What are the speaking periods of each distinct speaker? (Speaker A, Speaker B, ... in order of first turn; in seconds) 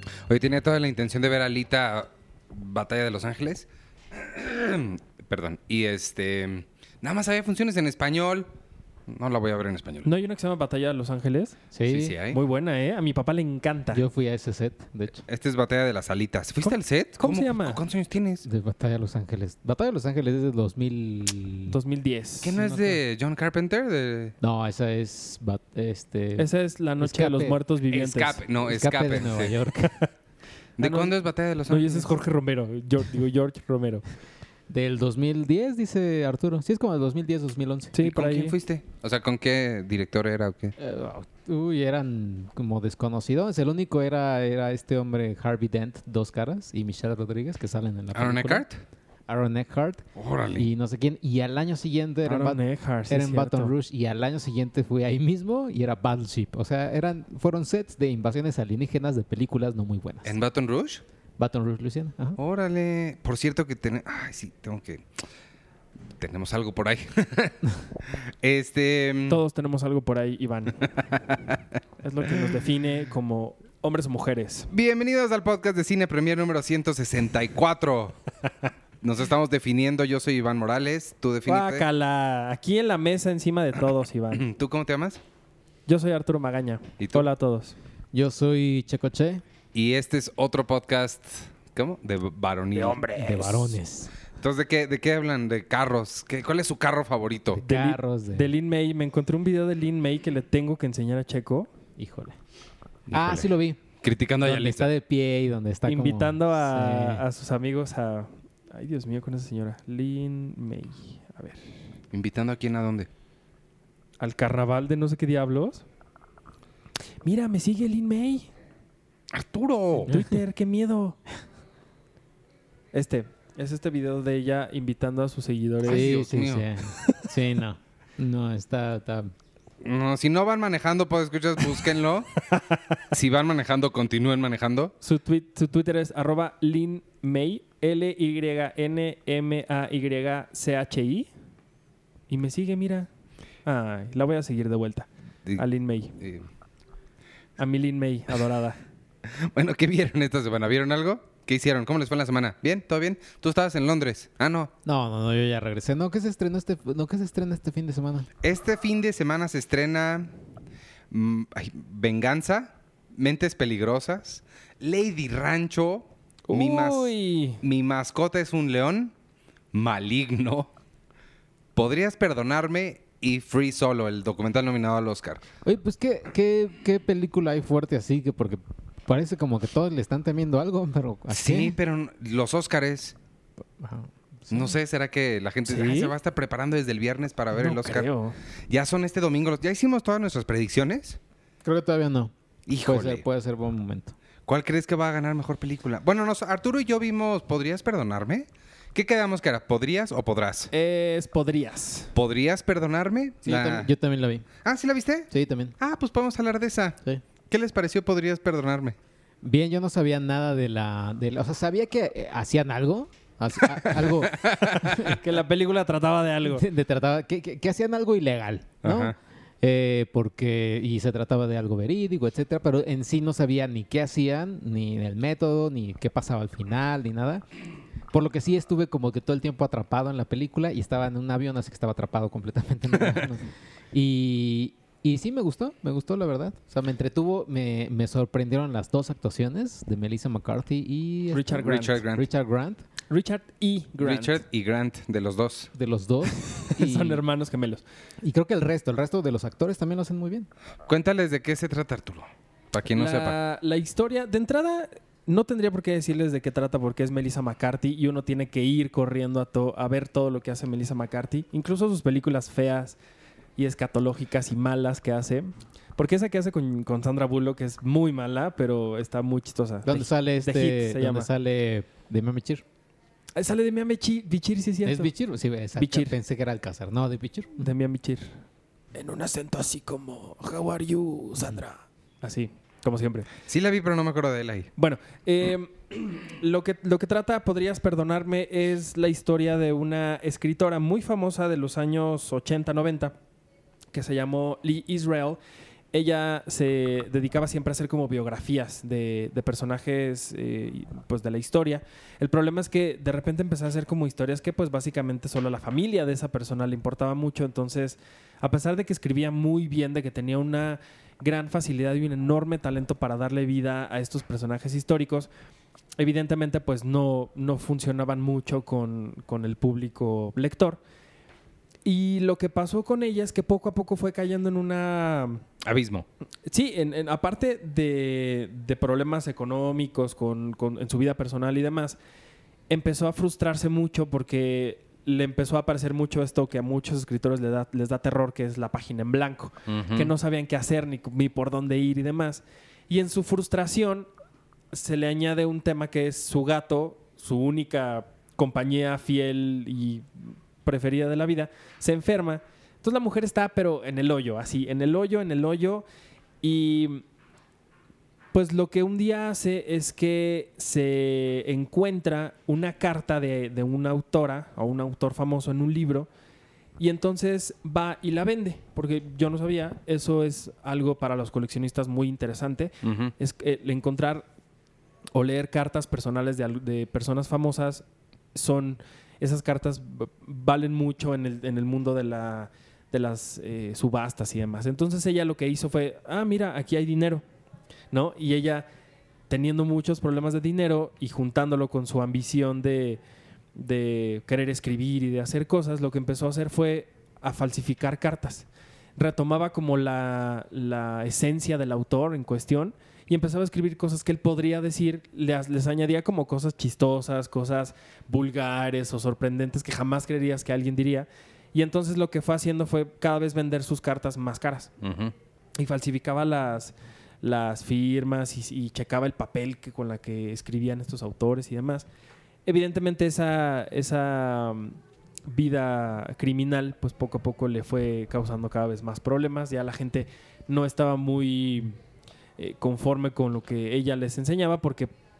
Speaker A: 0.3-8.5, 9.1-10.1, 11.9-12.4, 15.3-18.5, 22.4-24.3, 27.9-29.7, 30.8-32.1, 38.0-40.8, 48.1-48.8, 50.2-50.7, 60.2-61.0, 62.4-65.0, 66.2-69.4, 74.7-78.2, 79.0-81.8, 84.3-85.2, 89.7-93.1, 94.4-97.6, 103.1-103.5, 104.0-104.9, 112.1-113.1, 119.3-120.1, 125.9-127.1, 129.8-132.4, 133.1-134.9, 146.2-146.5, 149.3-154.7, 158.4-160.3, 161.1-169.1, 169.7-170.7, 171.8-175.4, 181.3-183.2, 184.5-188.1, 188.7-191.2, 192.7-193.2, 194.5-200.7, 202.2-203.9, 204.6-207.0, 207.5-209.0, 213.7-215.1, 218.8-219.1, 241.6-242.2, 244.0-245.7, 250.9-253.4, 283.5-284.7, 325.6-326.1, 339.7-340.1, 372.8-373.1, 414.8-415.1
Speaker B: 10.0-11.6, 12.3-14.1, 16.6-17.8, 21.7-23.0, 26.4-28.4, 30.8-31.1, 31.7-34.0, 37.9-38.6, 52.2-53.7, 69.3-70.9, 72.0-74.7, 81.5-84.4, 85.9-87.8, 92.7-93.8, 97.6-101.7, 105.9-111.8, 114.2-115.8, 117.2-118.5, 120.0-121.2, 122.9-126.2, 135.0-141.3, 142.3-143.1, 143.7-146.2, 147.6-148.8, 166.5-167.6, 185.7-186.1, 187.5-188.4, 200.7-202.1, 214.5-216.7, 241.3-242.0, 243.1-244.4, 246.4-247.8, 252.9-263.0, 263.6-271.3, 273.4-275.1, 275.8-276.1, 277.6-278.4, 278.9-283.3, 284.8-293.1, 293.9-295.4, 295.9-315.3, 316.0-320.8, 321.9-325.4, 326.5-332.0, 332.7-344.1, 344.7-355.9, 356.4-357.0, 358.3-366.1, 366.8-374.3, 375.1-387.2, 387.9-388.7, 389.3-393.0, 393.6-414.7, 415.6-421.9, 422.5-431.8, 432.4-434.9
Speaker C: 11.7-12.2, 13.9-15.2, 18.4-21.8, 24.4-26.5, 27.0-27.6, 28.6-30.0, 34.7-38.0, 40.8-48.6, 49.3-50.0, 50.6-60.4, 61.4-62.4, 88.1-89.4, 93.2-94.1, 97.5-98.5, 102.0-102.4, 103.1-103.8, 104.4-107.2, 120.1-120.4, 125.8-129.3, 154.8-158.3, 175.7-181.8, 183.8-184.8, 191.7-192.3, 192.8-194.2, 203.4-204.5, 205.3-205.8, 209.4-215.2, 216.4-227.4, 228.1-242.8, 245.8-247.2, 248.2-250.5, 269.9-272.6, 274.9-277.7